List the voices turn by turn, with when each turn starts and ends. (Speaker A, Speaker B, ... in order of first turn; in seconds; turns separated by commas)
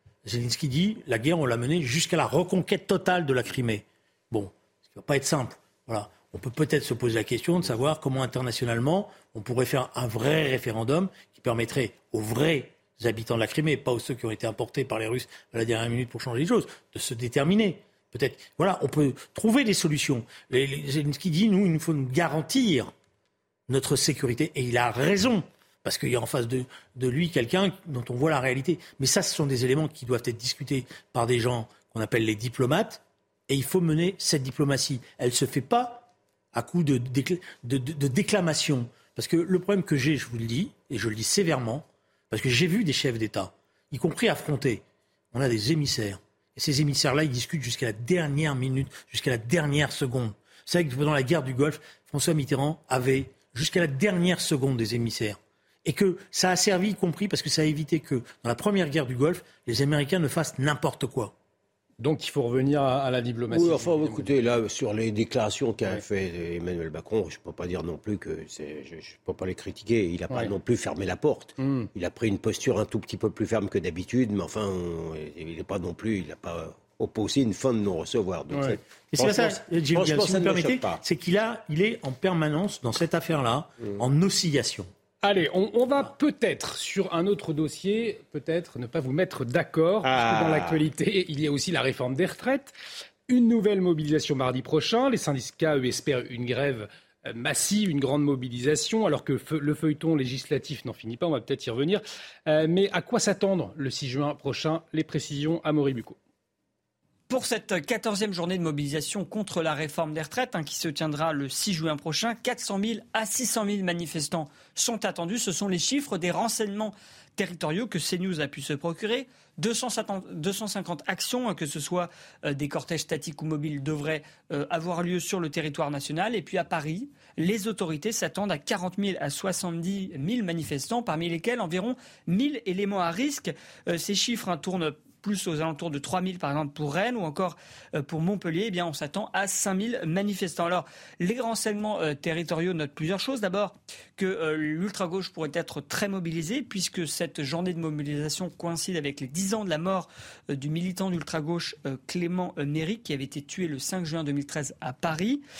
Speaker A: 0.2-22.9, Speaker A: 23.7-61.3, Speaker B: 62.0-64.3, Speaker C: 63.5-81.0, Speaker B: 71.6-71.9, Speaker B: 78.5-78.8, Speaker A: 79.1-84.9, Speaker B: 85.2-92.7, Speaker C: 90.0-90.8, Speaker B: 93.3-106.2, Speaker D: 107.3-155.4